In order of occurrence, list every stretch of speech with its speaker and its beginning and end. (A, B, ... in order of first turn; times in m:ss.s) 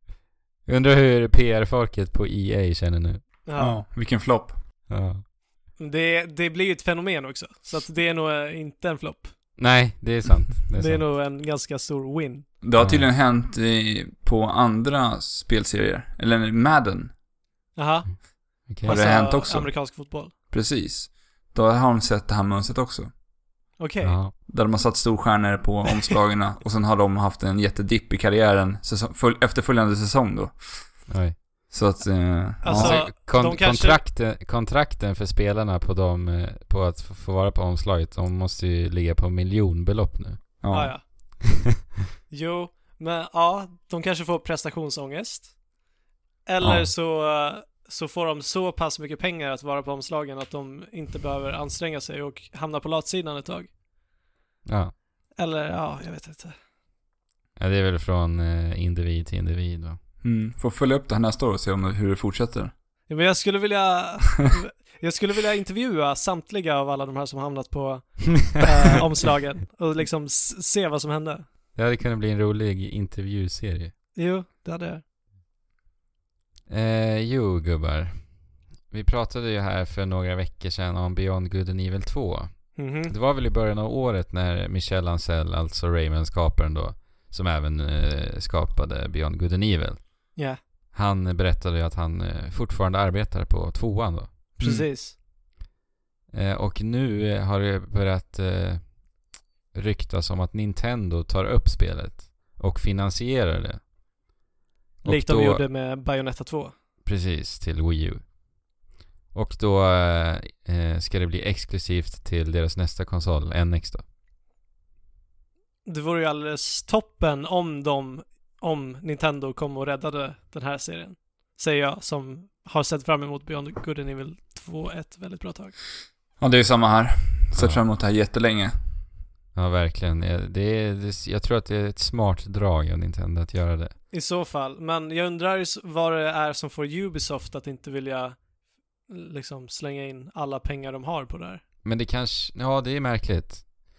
0:00.6-0:03.2 A
0:03.4-0:03.8 B
0:03.6-0:04.6 C
0:04.9-0:05.2 A
0:05.8-0:09.4 B
0:09.6-0:11.1 A
0:10.8-0:12.5 B
0:12.6-0:17.1 C
0:12.8-0:13.1 A
0:17.7-0:20.3 B
0:18.6-0:19.0 A
0:18.8-0:19.8 C
0:20.5-0:23.1 C
0:23.8-0:24.2 B
0:24.0-0:24.3 A
0:24.4-0:31.1 C
0:31.1-0:31.4 A
0:31.7-0:33.0 C
0:32.6-0:34.0 B
0:32.7-0:40.6 A
0:40.6-0:40.9 C
0:40.7-0:41.0 B
0:42.3-0:45.6 B
0:46.4-0:53.7 B
0:46.6-0:46.9 C
0:54.6-0:55.0 A
0:55.4-0:56.6 B
0:57.6-1:00.0 A
1:00.2-1:02.7 C
1:03.1-1:11.4 B
1:11.7-1:13.9 A
1:14.1-1:15.0 B
1:16.7-1:34.4 A
1:22.8-1:23.1 B
1:30.3-1:30.6 B
1:34.6-1:35.1 B
1:34.6-1:34.9 C
1:36.3-1:39.1 A
1:39.7-1:43.8 A
1:45.0-1:45.6 A
1:45.0-1:46.7 B
1:47.0-1:48.3 A
1:49.3-1:54.0 A
1:55.8-2:05.8 B
2:06.4-2:08.8 C
2:07.5-2:07.8 A
2:09.5-2:14.0 A
2:14.1-2:18.5 B
2:19.0-2:21.6 B
2:21.8-2:23.8 A